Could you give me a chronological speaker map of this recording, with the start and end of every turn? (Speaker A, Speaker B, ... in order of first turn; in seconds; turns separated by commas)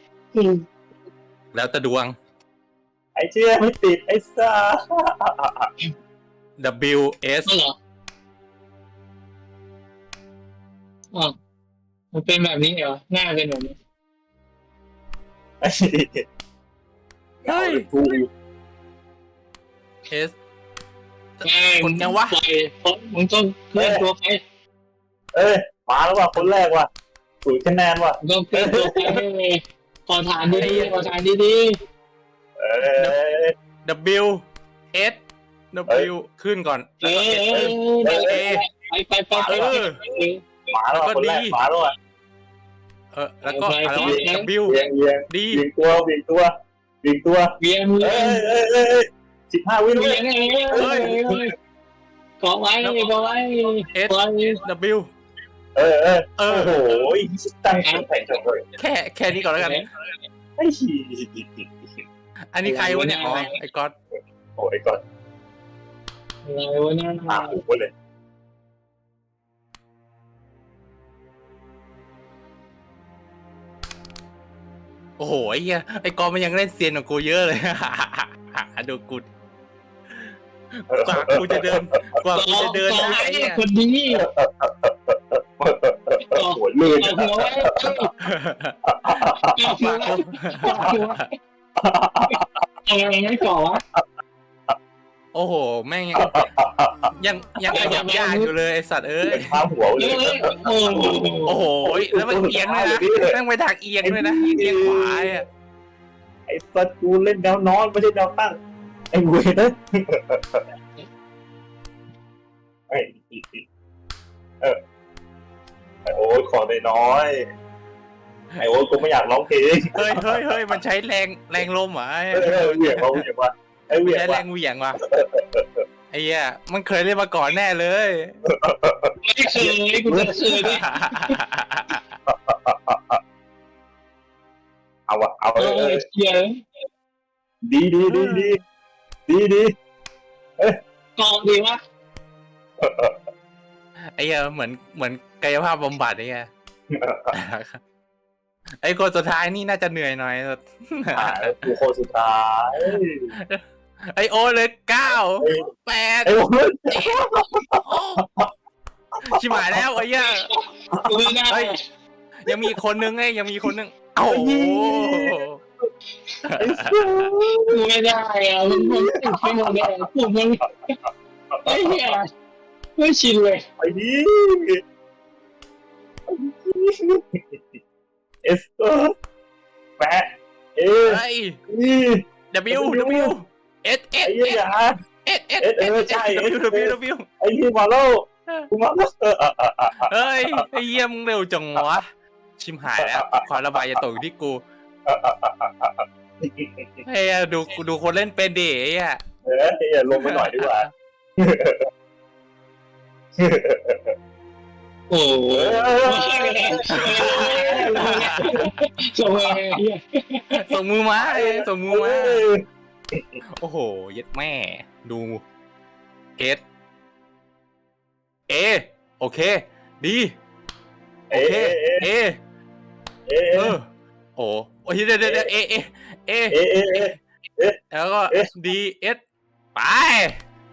Speaker A: 0.3-0.7, Speaker B: 1.5-2.1, Speaker C: 3.2-5.7, Speaker B: 6.6-7.5, Speaker A: 7.5-7.8, Speaker A: 12.1-13.8, Speaker C: 15.6-16.2, Speaker B: 17.5-17.9, Speaker C: 17.5-18.3, Speaker B: 20.1-20.4, Speaker B: 21.4-22.4, Speaker A: 21.4-24.4, Speaker C: 23.8-24.1, Speaker C: 25.4-26.9, Speaker C: 27.4-29.2, Speaker A: 28.2-31.8, Speaker B: 30.5-31.1, Speaker C: 30.5-30.9, Speaker C: 32.6-33.5, Speaker B: 33.9-35.2, Speaker B: 35.7-37.8, Speaker A: 37.0-40.4, Speaker C: 37.5-38.4, Speaker B: 38.3-38.6, Speaker C: 39.3-39.9, Speaker B: 39.5-40.0, Speaker C: 40.7-42.0, Speaker B: 40.9-41.6, Speaker B: 43.1-44.8, Speaker A: 43.5-44.5, Speaker C: 44.0-51.4, Speaker B: 45.3-45.6, Speaker A: 47.6-48.4, Speaker A: 49.9-51.5, Speaker B: 50.8-51.2, Speaker A: 52.4-54.6, Speaker B: 52.8-53.1, Speaker B: 53.9-55.1, Speaker C: 55.8-58.6, Speaker B: 56.4-57.1, Speaker A: 57.8-58.1, Speaker B: 58.8-59.8, Speaker A: 59.5-59.9, Speaker C: 60.6-62.0, Speaker B: 62.5-64.0, Speaker A: 62.6-63.6, Speaker C: 64.6-65.0, Speaker A: 66.5-67.6, Speaker C: 67.3-67.9, Speaker B: 75.2-79.3, Speaker B: 80.1-83.6, Speaker C: 80.9-82.0, Speaker A: 82.3-84.3, Speaker C: 84.2-88.1, Speaker A: 86.2-88.1, Speaker B: 88.2-89.2, Speaker C: 88.9-90.2, Speaker A: 89.5-91.3, Speaker B: 89.8-91.2, Speaker C: 91.8-92.4, Speaker A: 92.9-93.8, Speaker B: 95.3-96.5, Speaker C: 96.2-97.1, Speaker B: 97.2-99.6, Speaker A: 97.7-98.5, Speaker C: 97.7-98.0, Speaker C: 99.3-101.3, Speaker A: 100.0-101.6, Speaker B: 101.5-105.5, Speaker C: 101.8-103.4, Speaker C: 104.0-105.4, Speaker C: 106.5-108.6, Speaker C: 109.1-110.6, Speaker C: 112.9-113.7, Speaker C: 116.0-117.4, Speaker C: 118.6-120.6, Speaker B: 120.0-123.2, Speaker C: 122.3-124.4, Speaker B: 123.9-125.0, Speaker C: 125.0-125.8, Speaker B: 126.1-128.4, Speaker C: 128.5-130.4, Speaker A: 129.2-131.3, Speaker B: 130.6-132.1, Speaker C: 132.3-133.2, Speaker C: 135.1-136.0, Speaker A: 135.6-136.6, Speaker C: 137.7-138.6, Speaker B: 138.1-138.6, Speaker C: 139.3-139.7, Speaker A: 141.2-141.8, Speaker C: 142.8-143.2, Speaker B: 144.2-146.5, Speaker C: 146.9-147.3, Speaker B: 147.3-147.8, Speaker B: 148.8-151.7, Speaker C: 151.1-153.3, Speaker B: 152.9-156.3, Speaker C: 155.4-155.7, Speaker C: 156.2-158.5, Speaker B: 156.9-157.2, Speaker B: 157.8-158.2, Speaker B: 159.2-160.5, Speaker C: 159.3-159.8, Speaker A: 160.4-161.8, Speaker C: 160.9-161.3, Speaker B: 162.4-165.6, Speaker C: 162.5-162.8, Speaker C: 164.3-165.4, Speaker B: 166.4-167.3, Speaker C: 166.6-167.8, Speaker A: 167.7-170.7, Speaker C: 168.7-169.9, Speaker C: 171.5-172.1, Speaker A: 171.7-172.3, Speaker A: 173.0-173.7, Speaker C: 173.8-174.8, Speaker C: 176.3-177.8, Speaker C: 178.4-179.1, Speaker C: 180.0-183.3, Speaker B: 181.1-181.6, Speaker B: 182.5-184.6, Speaker C: 184.2-185.0, Speaker B: 185.2-187.3, Speaker C: 185.6-190.7, Speaker B: 190.0-192.1, Speaker B: 192.6-194.6, Speaker C: 193.0-193.5, Speaker C: 195.1-197.0, Speaker B: 197.1-199.2, Speaker C: 199.4-201.9, Speaker B: 200.1-200.9, Speaker C: 203.4-204.2, Speaker A: 205.1-210.7, Speaker C: 205.5-208.7, Speaker B: 207.0-208.7, Speaker C: 209.3-209.7, Speaker B: 210.5-212.4, Speaker C: 211.2-213.4, Speaker B: 213.6-215.4, Speaker B: 218.5-220.3, Speaker C: 221.3-222.1, Speaker B: 221.3-222.4, Speaker C: 223.3-223.8, Speaker B: 223.6-223.9, Speaker B: 224.4-227.2, Speaker C: 225.2-225.5, Speaker C: 226.5-227.8, Speaker B: 227.9-229.2, Speaker B: 229.8-230.4